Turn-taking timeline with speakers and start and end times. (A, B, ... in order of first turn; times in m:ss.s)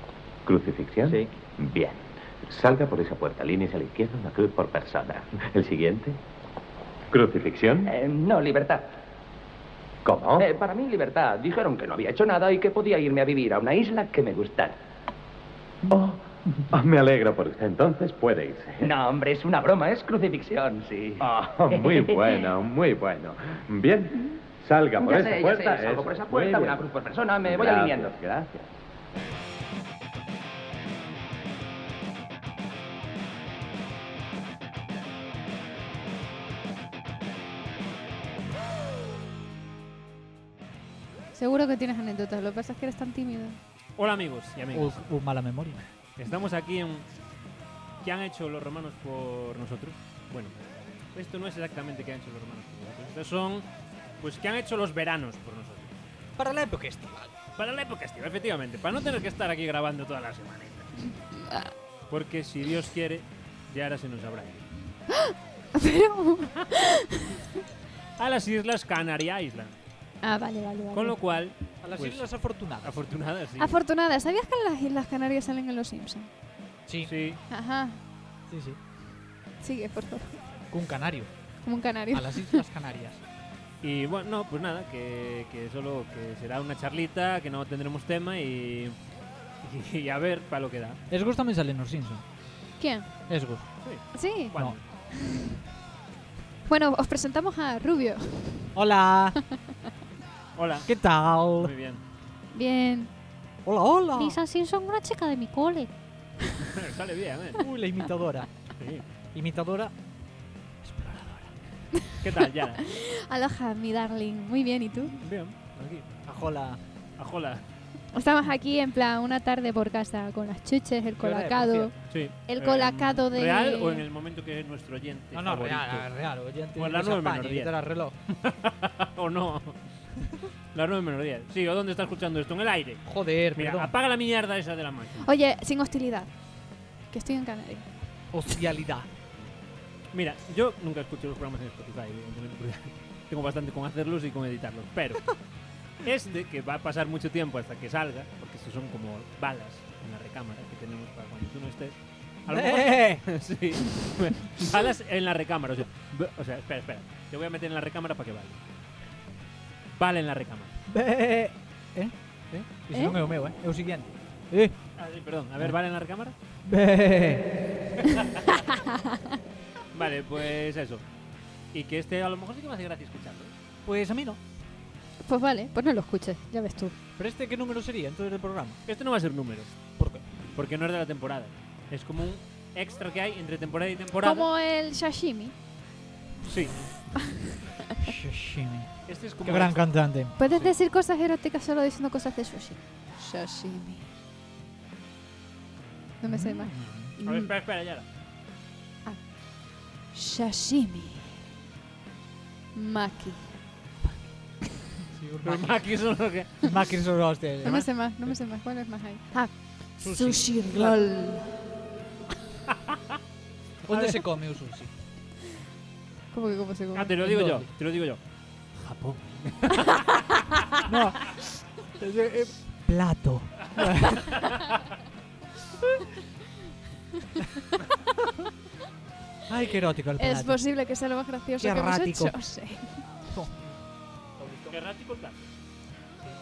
0:00.4-0:06.2 A
0:07.1-0:07.9 A
0:07.9-0:08.9 B
0:10.0-0:10.5 A
0:10.4-0:14.7 B
0:15.9-0:19.0 A
0:18.8-0:22.5 B
0:21.4-0:26.9 A
0:25.0-0:28.2 B
0:27.4-0:28.7 A
0:41.3-0:43.6 C
0:44.0-0:45.0 D
0:44.7-0:45.8 E
0:46.2-0:47.1 D
0:48.0-0:50.6 D
0:51.1-0:53.7 D
0:54.2-0:56.0 D
0:56.4-0:57.4 E
0:57.6-1:01.0 D
1:02.1-1:04.6 D
1:05.1-1:07.5 C
1:08.2-1:09.8 D
1:10.2-1:11.2 C
1:10.9-1:13.8 D
1:11.8-1:13.0 E
1:13.6-1:16.3 C
1:16.9-1:17.1 E
1:17.0-1:17.4 D
1:17.5-1:18.0 C
1:18.5-1:18.8 E
1:19.6-1:20.4 C
1:20.7-1:21.3 E
1:21.6-1:22.6 C
1:22.1-1:23.2 E
1:23.8-1:29.0 D
1:29.6-1:31.0 D
1:31.1-1:32.2 E
1:32.8-1:33.1 C
1:33.3-1:33.7 E
1:33.8-1:34.8 D
1:34.1-1:34.6 C
1:35.1-1:35.5 C
1:36.7-1:38.7 C
1:38.7-1:39.4 E
1:40.6-1:40.9 D
1:40.8-1:41.7 E
1:41.5-1:42.0 D
1:42.5-1:43.1 C
1:43.6-1:44.4 E
1:44.2-1:46.6 C
1:46.6-1:47.7 D
1:47.6-1:48.5 E
1:48.8-1:49.0 D
1:49.3-1:49.9 E
1:50.8-1:51.5 E
1:52.2-1:52.8 D
1:52.8-1:55.1 C
1:55.1-1:56.1 D
1:56.2-1:56.8 E
1:57.2-1:57.6 D
1:58.1-2:01.9 C
2:01.2-2:02.0 E
2:02.1-2:06.1 D
2:02.5-2:04.0 C
2:05.3-2:08.2 E
2:06.7-2:09.8 D
2:10.7-2:15.3 D
2:13.0-2:13.9 E
2:15.2-2:16.3 C
2:17.1-2:17.9 C
2:18.3-2:19.1 E
2:20.1-2:25.4 D
2:26.0-2:38.6 D
2:32.5-2:33.2 E
2:40.0-2:40.7 D
2:40.9-2:42.1 E
2:42.7-2:44.8 E
2:45.0-2:46.3 D
2:46.6-2:48.0 E
2:48.1-2:48.4 D
2:48.5-2:49.4 C
2:49.9-2:51.0 D
2:51.7-2:53.5 D
2:53.8-2:54.4 E
2:55.2-2:56.9 C
2:57.2-2:58.8 E
2:58.8-2:59.8 D
3:00.0-3:00.2 E
3:00.5-3:04.5 D
3:04.2-3:05.5 C
3:06.4-3:06.9 D
3:07.3-3:07.9 C
3:08.0-3:10.3 E
3:09.1-3:10.7 D
3:10.4-3:14.0 C
3:16.2-3:17.5 C
3:16.2-3:17.1 E
3:17.2-3:18.1 D
3:20.1-3:21.3 C
3:22.7-3:23.5 C
3:24.0-3:24.3 E
3:25.0-3:25.8 E
3:25.4-3:26.7 D
3:26.6-3:27.8 E
3:27.6-3:31.6 C
3:30.0-3:31.0 E
3:33.8-3:34.9 E
3:33.9-3:34.2 D
3:36.3-3:37.1 C
3:36.9-3:38.2 D
3:37.2-3:37.7 E
3:38.7-3:40.4 D
3:40.8-3:41.3 E
3:42.0-3:44.3 E
3:44.3-3:44.6 D
3:49.5-3:50.6 E
3:50.2-3:53.0 C
3:51.6-3:52.3 E
3:53.3-3:53.7 E
3:54.4-3:54.8 E
3:54.7-3:55.5 D